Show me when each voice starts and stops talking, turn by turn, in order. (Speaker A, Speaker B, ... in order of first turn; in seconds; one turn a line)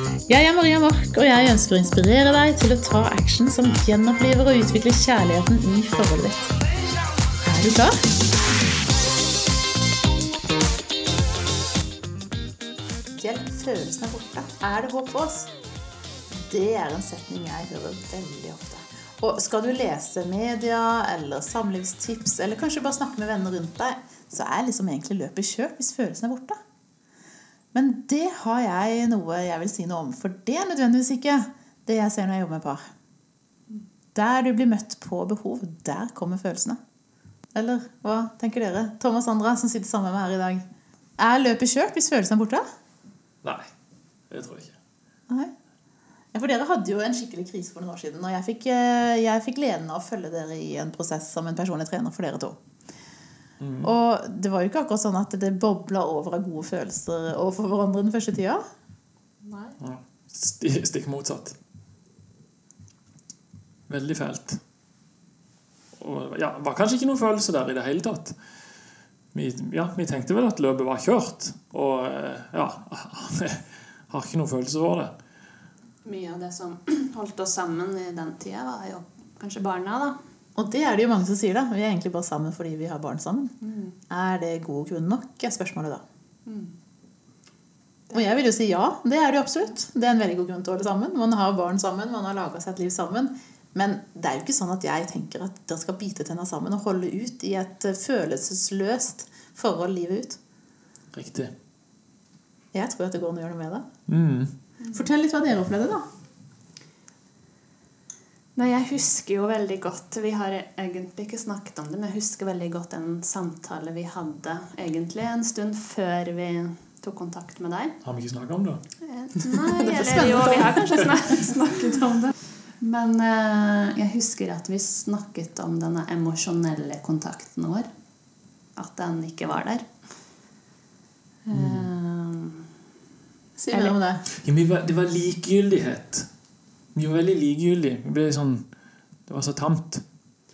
Speaker A: 0.3-6.5
Speaker A: 7.4-8.0
Speaker A: 13.2-15.5
Speaker A: 16.3-26.6
Speaker A: 27.7-32.8
Speaker A: 34.1-36.8
Speaker A: 37.5-40.6
Speaker A: 41.2-42.6
Speaker B: 44.3-44.8
Speaker A: 46.3-52.6
Speaker B: 53.6-53.9
Speaker A: 53.8-58.6
Speaker C: 59.5-59.8
Speaker B: 59.8-61.6
Speaker B: 63.9-64.6
Speaker B: 66.0-68.4
Speaker B: 69.3-75.1
Speaker C: 76.0-80.2
Speaker A: 80.6-83.5
Speaker C: 83.6-84.0
Speaker A: 84.1-86.0
Speaker C: 86.5-86.7
Speaker A: 88.1-100.4
Speaker B: 101.1-101.5
Speaker A: 102.7-103.9
Speaker B: 104.1-104.5
Speaker A: 104.9-106.0
Speaker C: 108.6-118.0
Speaker B: 118.0-118.8
Speaker C: 119.0-127.9
Speaker A: 119.5-121.2
Speaker C: 128.8-129.9
Speaker C: 131.5-132.7
Speaker B: 131.5-131.9
Speaker A: 133.6-134.2
Speaker B: 134.3-136.3
Speaker B: 136.9-138.7
Speaker B: 139.3-140.0